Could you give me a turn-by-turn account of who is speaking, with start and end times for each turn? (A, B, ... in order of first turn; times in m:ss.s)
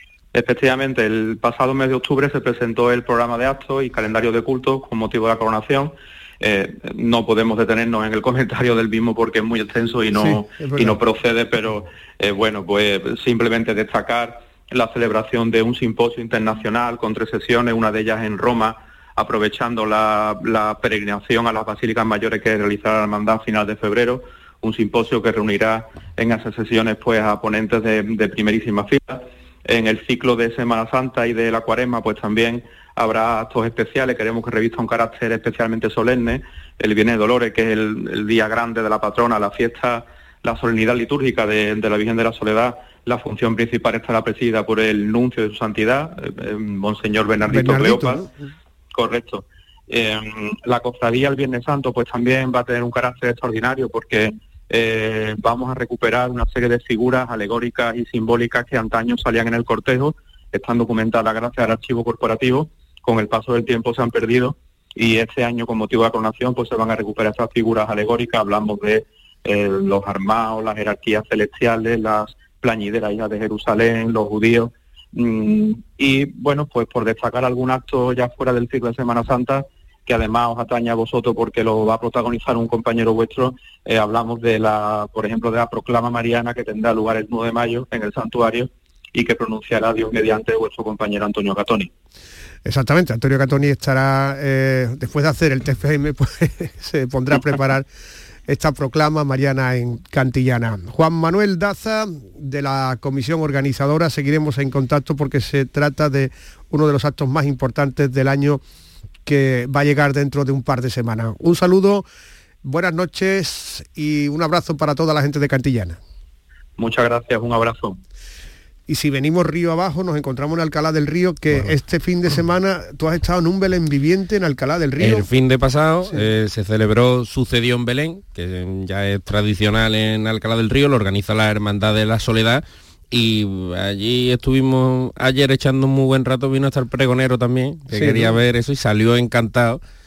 0:00.3-0:48.2 A
0:10.2-0:11.0 B
0:47.5-0:48.5 B
0:48.9-1:31.9 A
1:32.6-1:37.9 B
1:38.5-1:48.6 B
1:49.2-1:52.1 B
1:52.6-1:56.0 B
1:56.8-1:58.0 A
1:58.9-2:05.3 B
2:05.0-2:19.8 C
2:17.9-2:18.4 B